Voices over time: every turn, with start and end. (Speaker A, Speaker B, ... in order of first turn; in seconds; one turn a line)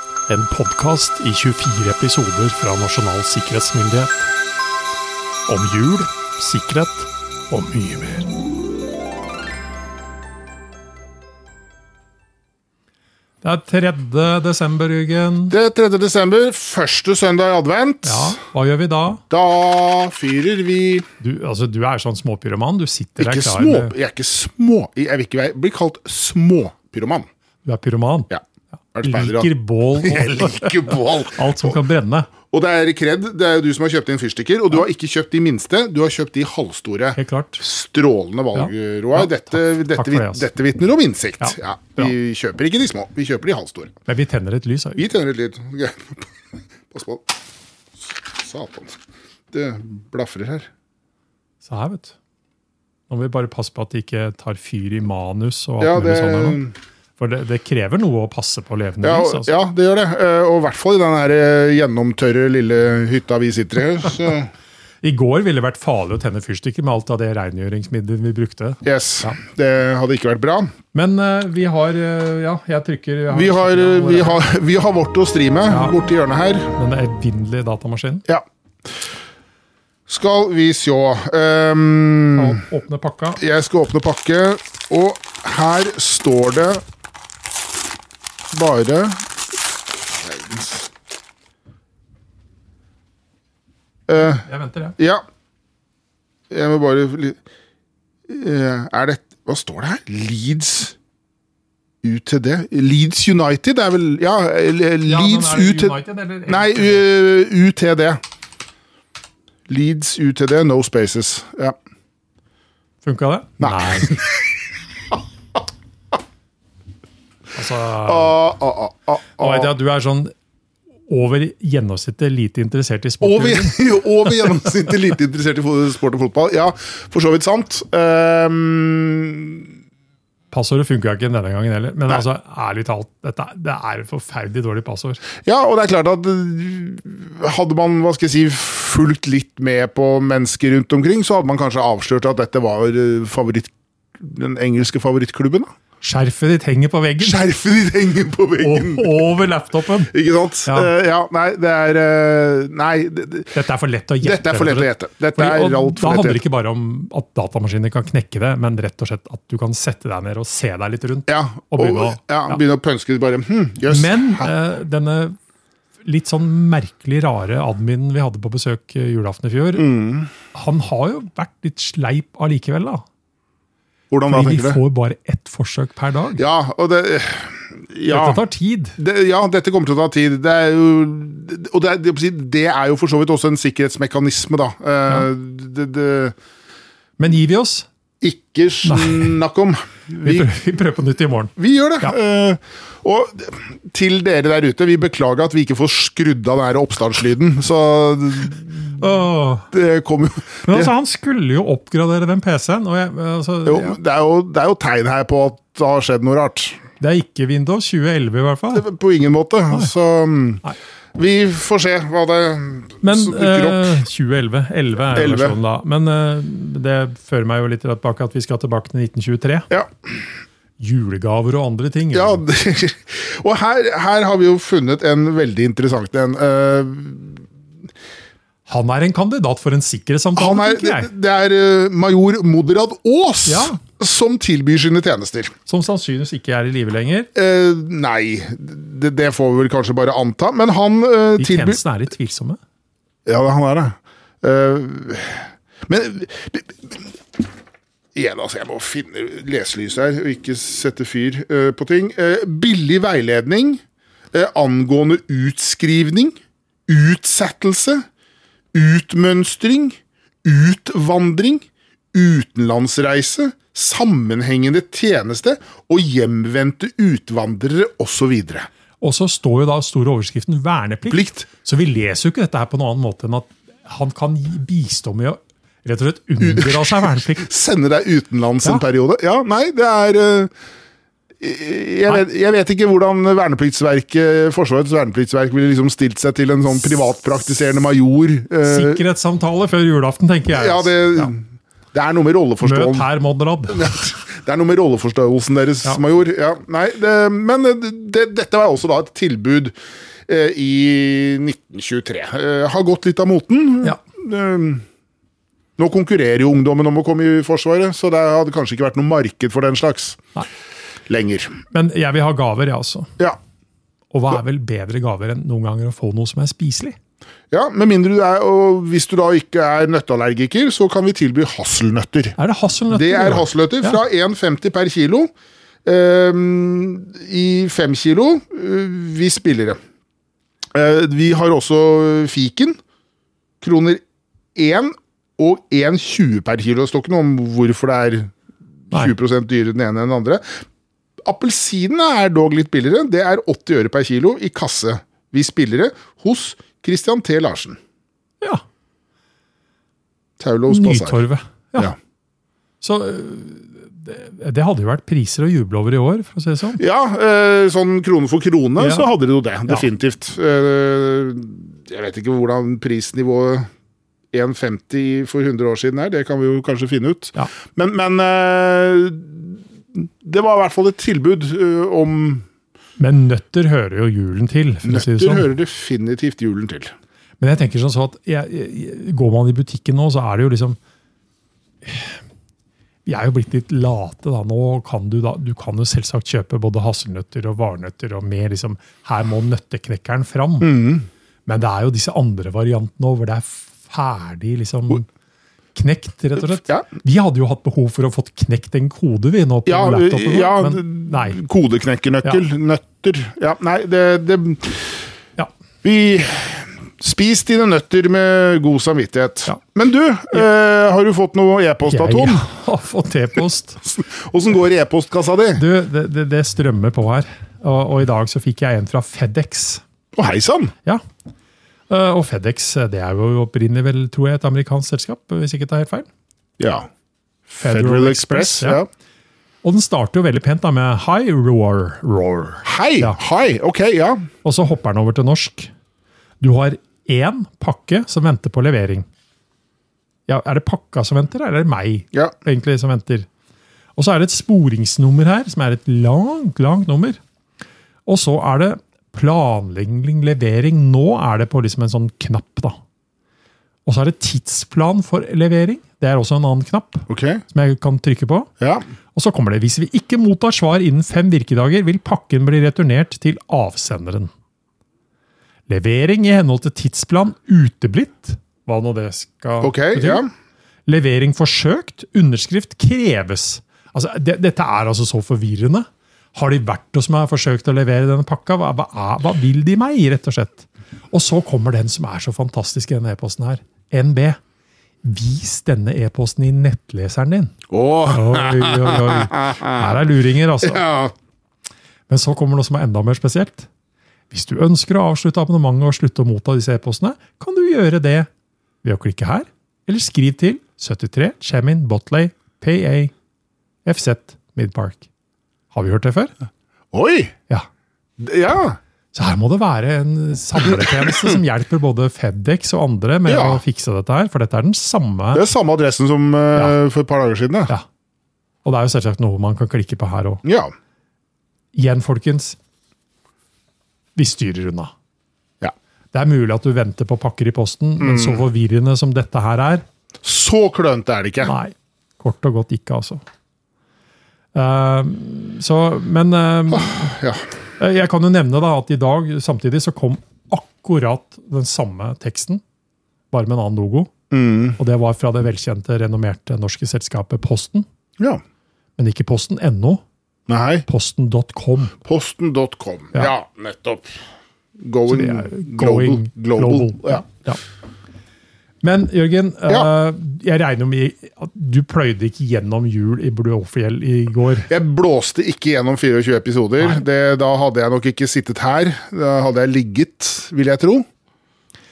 Speaker A: 0.3-4.3
Speaker A: 5.5-8.3
Speaker A: 13.4-15.6
Speaker B: 15.5-18.4
Speaker A: 18.0-19.2
Speaker B: 19.3-21.1
Speaker A: 21.2-23.9
Speaker B: 23.2-27.3
Speaker A: 27.7-28.3
Speaker B: 28.9-31.8
Speaker A: 29.0-32.3
Speaker B: 32.5-43.9
Speaker A: 37.2-37.6
Speaker A: 38.5-40.5
Speaker A: 41.4-42.1
Speaker A: 44.1-45.1
Speaker B: 45.0-46.3
Speaker B: 46.9-47.3
Speaker B: 48.4-49.0
Speaker B: 49.5-50.7
Speaker A: 51.6-52.2
Speaker A: 53.1-56.6
Speaker B: 55.8-56.7
Speaker A: 57.2-59.5
Speaker B: 59.0-64.5
Speaker A: 65.0-69.4
Speaker B: 68.8-70.7
Speaker A: 70.9-74.4
Speaker B: 73.3-76.7
Speaker A: 75.7-76.0
Speaker A: 76.8-78.3
Speaker B: 80.1-82.6
Speaker A: 82.4-83.4
Speaker B: 83.4-86.8
Speaker B: 88.5-89.2
Speaker B: 90.1-90.9
Speaker B: 94.1-94.5
Speaker A: 94.2-95.0
Speaker B: 95.0-95.2
Speaker B: 96.5-97.4
Speaker B: 98.3-101.0
Speaker B: 102.0-106.0
Speaker A: 105.1-107.1
Speaker B: 106.5-108.2
Speaker B: 109.7-111.8
Speaker A: 113.0-114.2
Speaker B: 113.6-114.4
Speaker A: 117.5-118.4
Speaker B: 118.0-119.7
Speaker A: 119.4-120.3
Speaker A: 121.1-123.8
Speaker B: 123.2-129.7
Speaker A: 130.5-135.2
Speaker B: 135.4-145.7
Speaker A: 146.0-147.4
Speaker B: 147.2-149.3
Speaker A: 148.6-150.1
Speaker B: 150.1-153.6
Speaker A: 150.7-150.9
Speaker A: 153.5-162.6
Speaker B: 154.2-156.4
Speaker B: 161.3-164.5
Speaker A: 163.9-165.4
Speaker A: 166.1-169.9
Speaker B: 169.8-170.3
Speaker A: 170.5-173.0
Speaker B: 174.1-174.8
Speaker A: 174.3-176.4
Speaker B: 176.4-178.4
Speaker A: 178.1-179.0
Speaker B: 179.0-186.3
Speaker A: 187.2-187.9
Speaker B: 188.2-190.5
Speaker A: 188.8-189.4
Speaker A: 190.2-192.2
Speaker B: 191.6-199.1
Speaker A: 199.0-199.7
Speaker B: 199.7-200.9
Speaker A: 200.7-204.0
Speaker B: 203.7-206.8
Speaker A: 207.0-208.9
Speaker B: 208.7-210.6
Speaker B: 211.2-214.0
Speaker A: 213.0-219.7
Speaker B: 215.1-215.6
Speaker A: 220.8-222.4
Speaker B: 222.1-227.4
Speaker A: 228.7-231.1
Speaker B: 230.4-235.5
Speaker A: 233.5-233.8
Speaker A: 235.7-237.3
Speaker B: 237.3-241.8
Speaker A: 241.4-242.6
Speaker B: 243.3-247.1
Speaker B: 248.2-256.3
Speaker B: 256.9-258.1
Speaker B: 258.7-268.7
Speaker A: 269.0-277.5
Speaker B: 271.1-271.5
Speaker B: 276.4-280.5
Speaker B: 281.4-289.0
Speaker A: 288.6-291.3
Speaker B: 290.5-293.1
Speaker A: 292.6-293.9
Speaker B: 293.7-299.7
Speaker B: 300.3-304.9
Speaker B: 305.8-310.2
Speaker B: 311.1-311.6
Speaker A: 311.7-313.1
Speaker A: 314.1-317.0
Speaker B: 317.5-322.4
Speaker A: 322.4-324.0
Speaker B: 322.9-325.3
Speaker B: 325.9-329.8
Speaker B: 330.7-332.8
Speaker B: 333.6-334.0
Speaker B: 334.6-338.3
Speaker B: 338.9-340.5
Speaker B: 341.2-347.8
Speaker B: 350.4-351.2
Speaker A: 350.7-351.9
Speaker A: 352.8-356.8
Speaker B: 356.8-363.7
Speaker A: 358.8-359.1
Speaker B: 364.3-372.5
Speaker A: 373.0-375.5
Speaker B: 374.9-376.9
Speaker A: 377.4-380.8
Speaker A: 381.8-382.2
Speaker A: 383.1-390.8
Speaker B: 390.6-391.1
Speaker A: 391.5-395.1
Speaker A: 395.8-401.4
Speaker B: 399.7-405.0
Speaker B: 405.8-412.4
Speaker A: 411.9-413.8
Speaker B: 413.8-415.6
Speaker A: 415.6-419.8
Speaker B: 420.1-420.7
Speaker A: 421.9-426.1
Speaker B: 426.6-426.9
Speaker B: 427.5-428.9
Speaker A: 427.6-428.8
Speaker A: 429.6-433.2
Speaker B: 432.6-434.3
Speaker A: 434.4-435.7
Speaker A: 436.4-439.1
Speaker A: 440.3-443.3
Speaker A: 444.0-447.2
Speaker A: 448.1-452.8
Speaker A: 453.9-458.5
Speaker B: 457.1-457.4
Speaker A: 459.1-464.3
Speaker A: 465.7-470.2
Speaker B: 469.6-470.3
Speaker A: 470.9-484.4
Speaker A: 485.0-490.9
Speaker B: 487.7-490.0
Speaker B: 490.6-491.1
Speaker A: 492.1-493.7
Speaker A: 494.3-498.3
Speaker A: 498.8-503.1
Speaker A: 503.9-505.1
Speaker A: 505.7-506.3
Speaker B: 506.9-507.3
Speaker B: 508.2-508.8
Speaker A: 509.1-515.5
Speaker B: 511.1-511.3
Speaker B: 513.3-513.6
Speaker B: 515.3-517.7
Speaker A: 518.6-520.4
Speaker B: 520.5-520.7
Speaker A: 521.7-522.6
Speaker A: 524.2-524.9
Speaker A: 526.1-529.9
Speaker B: 528.0-528.4
Speaker B: 530.2-531.5
Speaker A: 531.4-533.2
Speaker A: 534.5-537.2
Speaker B: 536.7-537.4
Speaker A: 537.8-542.6
Speaker A: 543.3-544.1
Speaker B: 544.3-544.8
Speaker A: 544.8-547.9
Speaker A: 549.0-550.0
Speaker B: 550.5-550.9
Speaker A: 550.9-552.0
Speaker B: 552.0-554.2
Speaker B: 554.8-557.2
Speaker A: 555.1-557.6
Speaker A: 558.8-564.7
Speaker B: 564.7-571.0